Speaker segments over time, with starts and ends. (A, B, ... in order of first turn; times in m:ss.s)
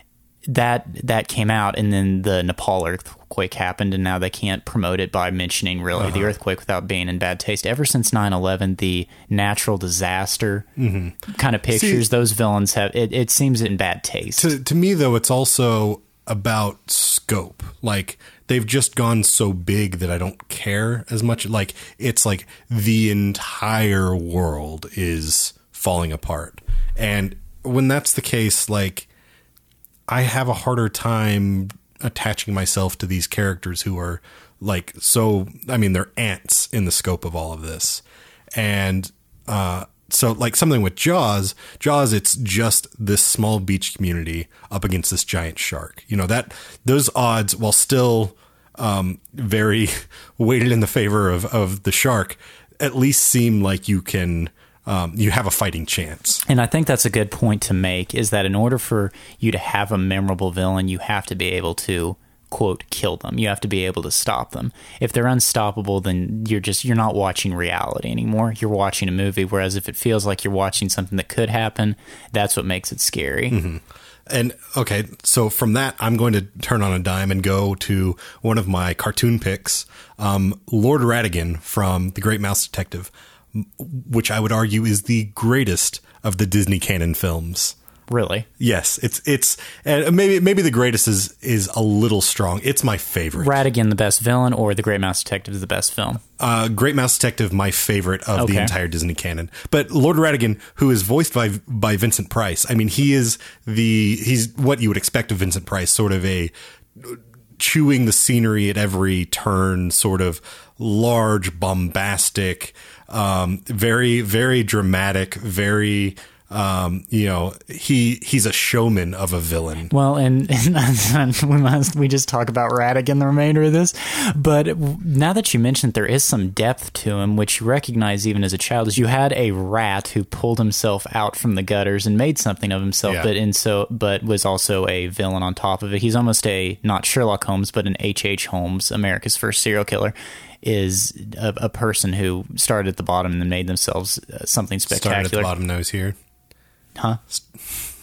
0:00.5-0:10.7 A
0:06.0-0:06.3 B
0:10.8-0:12.0 B
0:11.3-0:14.5 A
0:14.3-0:29.1 B
0:30.1-0:38.0 B
0:38.6-0:56.4 B
0:56.5-1:13.6 A
1:13.5-1:27.8 B
1:28.1-1:28.5 A
1:28.6-1:33.6 B
1:33.4-1:36.2 A
1:36.4-1:59.9 B
1:38.4-1:38.7 A
1:59.9-2:25.5 A
2:24.9-2:26.2 B
2:27.0-2:27.2 A